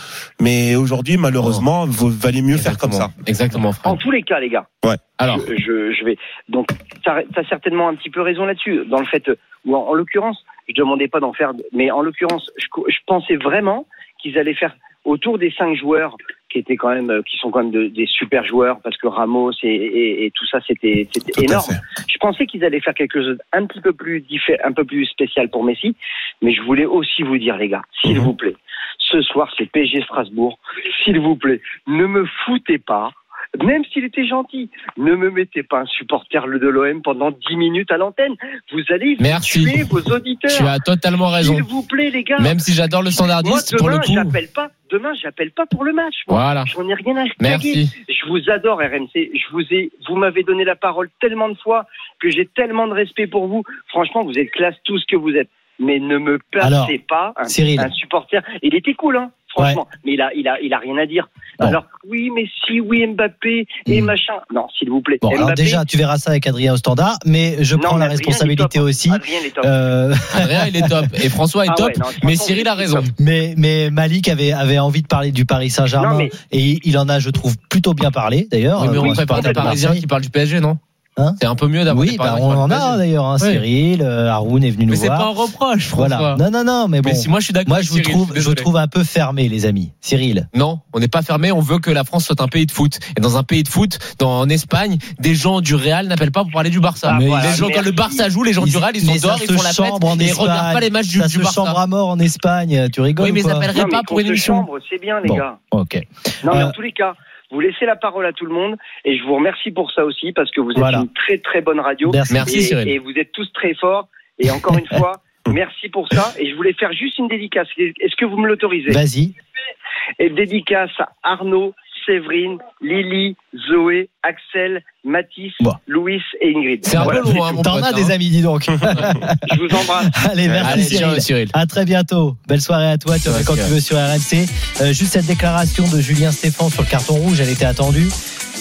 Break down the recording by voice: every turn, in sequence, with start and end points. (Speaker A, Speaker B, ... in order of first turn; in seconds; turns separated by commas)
Speaker A: 0.4-3.1, Speaker B: 2.5-4.0, Speaker C: 3.8-4.7, Speaker B: 5.2-5.5, Speaker C: 5.3-40.7, Speaker A: 21.4-21.8, Speaker A: 28.0-28.3, Speaker B: 39.2-39.9, Speaker B: 40.5-41.6, Speaker C: 41.4-42.6, Speaker B: 42.4-44.4, Speaker C: 43.4-65.8, Speaker B: 46.3-46.7, Speaker B: 47.4-47.9, Speaker D: 56.6-57.9, Speaker D: 59.6-59.8, Speaker D: 63.9-64.1, Speaker D: 65.2-71.1, Speaker C: 67.7-69.9, Speaker B: 70.3-73.1, Speaker C: 71.7-73.1, Speaker D: 73.1-80.0, Speaker C: 76.0-76.3, Speaker B: 78.8-80.8, Speaker C: 78.8-79.8, Speaker D: 81.2-85.3, Speaker B: 81.4-83.6, Speaker B: 84.9-86.4, Speaker D: 86.0-90.5, Speaker B: 87.0-88.7, Speaker B: 90.5-101.8, Speaker C: 97.0-98.3, Speaker D: 97.1-97.7, Speaker D: 98.6-103.7, Speaker B: 103.2-104.7, Speaker C: 103.7-105.6, Speaker D: 105.2-106.7, Speaker C: 106.4-119.0, Speaker D: 110.7-111.1, Speaker D: 112.0-112.5, Speaker B: 112.3-112.9, Speaker D: 118.9-119.3, Speaker C: 120.2-127.6, Speaker B: 126.8-128.1, Speaker D: 126.9-138.1, Speaker A: 128.8-129.2, Speaker C: 129.4-130.2, Speaker A: 130.5-130.8, Speaker B: 130.6-131.5, Speaker C: 130.7-131.1, Speaker B: 133.2-133.7